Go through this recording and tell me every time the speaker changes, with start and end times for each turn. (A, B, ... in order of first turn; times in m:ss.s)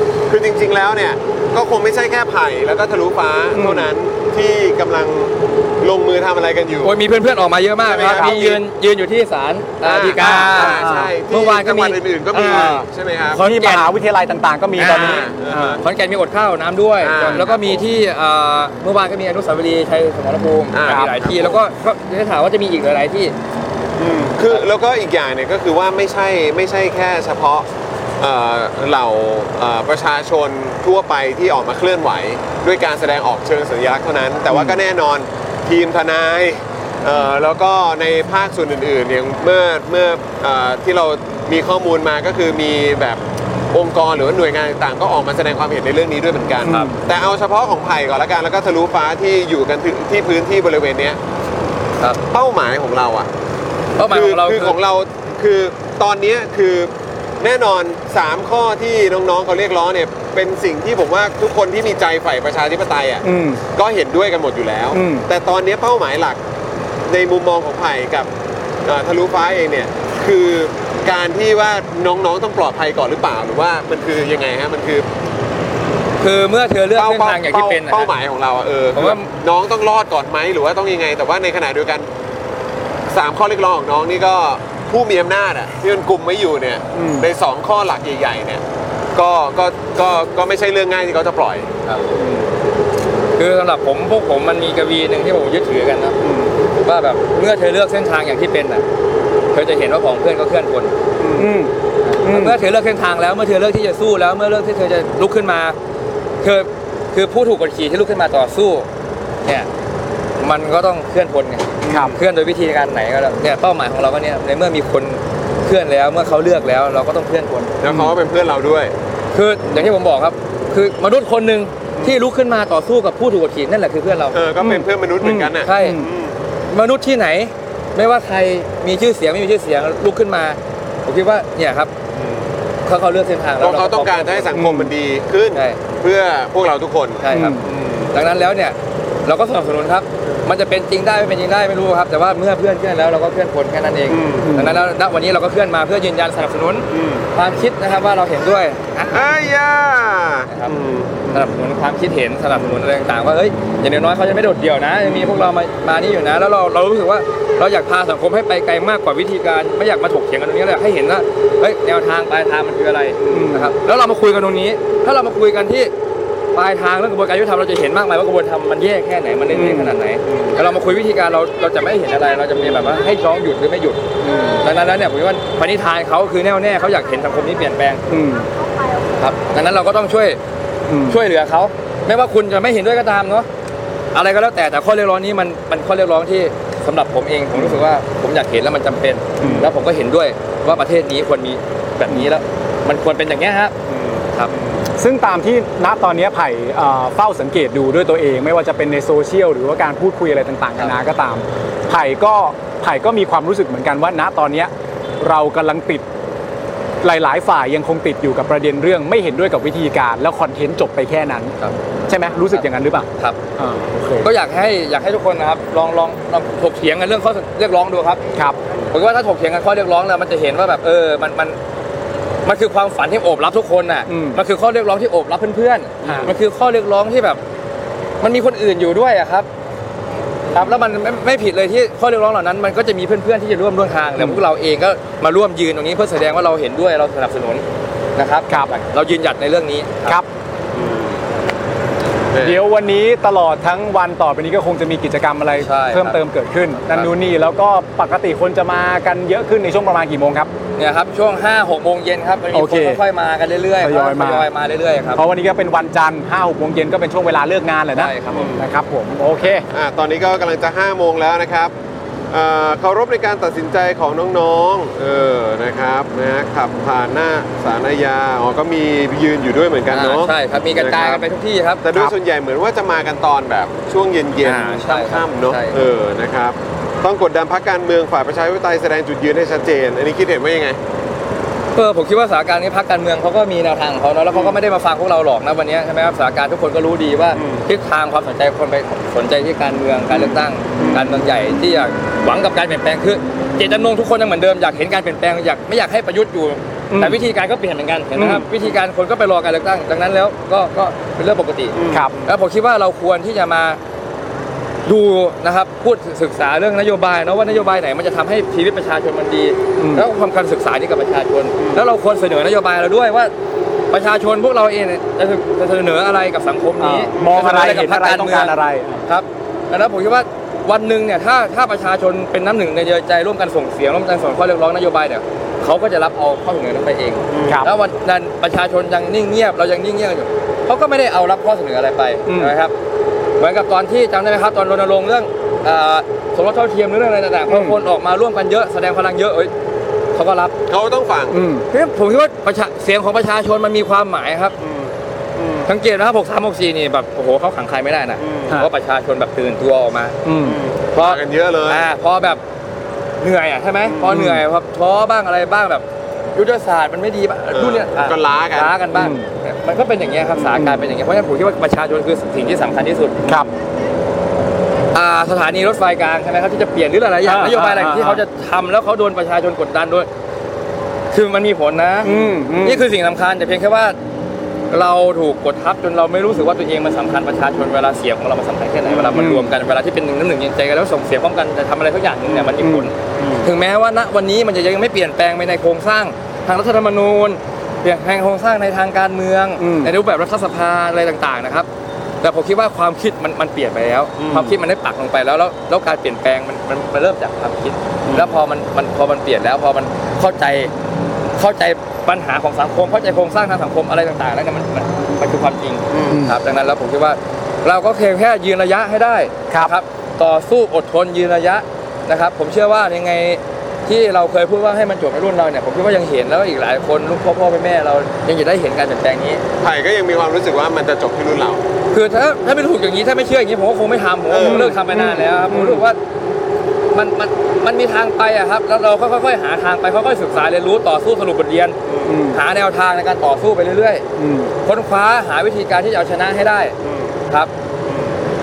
0:00.3-0:07.0 A
0:03.5-0:03.9 B
0:06.8-0:13.9 C
0:07.8-0:08.6 A
0:09.8-0:13.4 A
0:10.2-0:11.1 B
0:13.4-0:15.8 B
0:14.8-0:15.3 C
0:14.8-0:15.8 A
0:15.8-0:23.3 C
0:17.0-0:17.9 A
0:20.7-0:21.6 A
0:24.0-0:27.7 A
0:28.2-0:43.2 A
0:34.5-0:34.8 B
0:43.7-0:51.2 A
0:46.6-0:47.0 B
0:52.3-0:53.3 A
0:54.0-0:54.8 C
0:54.0-1:06.4 A
1:03.2-1:03.6 B
1:04.9-1:05.2 B
1:07.1-1:08.3 A
1:08.8-1:15.0 A
1:16.2-1:18.1 C
1:16.9-1:22.1 A
1:18.9-1:19.3 C
1:23.1-1:28.6 A
1:26.9-1:27.3 B
1:29.1-1:31.7 A
1:33.4-1:36.2 C
1:36.8-1:38.8 C
1:39.5-1:40.9 C
1:41.4-1:41.7 B
1:42.0-1:45.8 C
1:42.2-1:42.6 B
1:46.4-1:48.9 C
1:50.4-1:57.7 C
1:51.9-1:52.2 B
1:57.8-1:58.9 A
1:57.9-1:58.1 B
1:59.3-2:04.4 C
2:04.3-2:06.3 A
2:04.6-2:06.0 B
2:05.6-2:06.0 C
2:06.7-2:11.9 C
2:12.1-2:12.4 A
2:12.9-2:14.6 C
2:13.6-2:18.1 A
2:14.5-2:14.9 B
2:15.6-2:15.8 C
2:17.2-2:17.6 C
2:17.3-2:17.6 B
2:18.1-2:29.2 C
2:24.1-2:24.5 A
2:24.4-2:24.8 B
2:26.9-2:27.2 A
2:29.1-2:31.5 A
2:31.3-2:45.9 C
2:43.3-2:43.7 B
2:46.6-2:58.0 C
2:49.5-2:49.9 B
2:54.2-2:54.5 B
2:58.1-2:58.5 B
2:59.2-3:00.4 C
3:00.9-3:01.2 B
3:01.1-3:03.5 C
3:04.1-3:13.7 C
3:09.4-3:09.6 B
3:13.9-3:14.6 A
3:15.0-3:26.0 B
3:27.0-3:31.6 B
3:32.1-3:34.3 B
3:34.1-3:38.2 C
3:38.9-3:41.6 C
3:42.4-3:47.4 C
3:44.1-3:44.4 B
3:46.0-3:46.3 B
3:48.2-3:49.5 C
3:50.5-3:57.6 C
3:58.2-4:00.2 C
4:00.7-4:01.2 A
4:02.3-4:02.6 A
4:02.4-4:10.5 B
4:05.6-4:06.2 C
4:10.8-4:15.2 C
4:12.5-4:13.0 B
4:13.8-4:14.5 B
4:15.2-4:19.6 B
4:17.9-4:18.6 C
4:18.3-4:18.6 A
4:19.7-4:21.7 A
4:22.3-4:31.2 A
4:29.9-4:31.8 C
4:31.8-4:40.8 A
4:34.4-4:35.8 C
4:41.8-5:03.8 C
4:47.3-4:47.6 A
4:50.8-4:51.1 A
4:56.9-4:57.2 B
4:58.1-4:58.4 B
5:01.7-5:02.2 A
5:04.9-5:13.3 C
5:09.8-5:10.0 B
5:11.6-5:11.8 A
5:13.9-5:18.6 C
5:16.8-5:19.0 B
5:19.1-5:32.7 C
5:27.3-5:27.6 A
5:27.4-5:27.7 B
5:32.3-5:32.5 B
5:33.4-5:39.5 C
5:37.5-5:37.8 B
5:40.1-5:40.5 C
5:40.7-5:41.4 A
5:41.3-5:41.6 B
5:41.7-5:44.6 C
5:44.6-5:45.6 A
5:45.6-5:50.2 C
5:48.2-5:48.5 A
5:50.2-5:50.6 B
5:50.4-5:51.9 A
5:50.9-5:52.4 C
5:53.2-5:55.8 C
5:54.1-5:54.4 B
5:56.3-6:03.4 C
5:57.5-5:58.8 A
5:58.9-5:59.3 B
6:00.6-6:00.8 B
6:03.3-6:03.5 B
6:04.9-6:10.1 C
6:07.2-6:08.2 B
6:11.1-6:14.0 C
6:12.0-6:12.8 B
6:14.7-6:31.7 C
6:18.9-6:19.2 A
6:19.1-6:19.5 B
6:22.6-6:22.9 B
6:29.6-6:29.9 B
6:32.2-6:40.7 C
6:34.2-6:34.5 A
6:38.1-6:38.4 A
6:41.4-6:59.4 C
6:46.1-6:46.4 B
6:59.6-7:01.6 A
7:01.9-7:06.0 C
7:04.3-7:04.8 A
7:04.4-7:05.8 B
7:06.9-7:11.8 C
7:11.9-7:12.2 A
7:12.0-7:12.4 B
7:12.3-7:14.0 C
7:14.2-7:14.5 B
7:14.6-7:16.7 C
7:16.8-7:17.2 A
7:17.9-7:18.1 A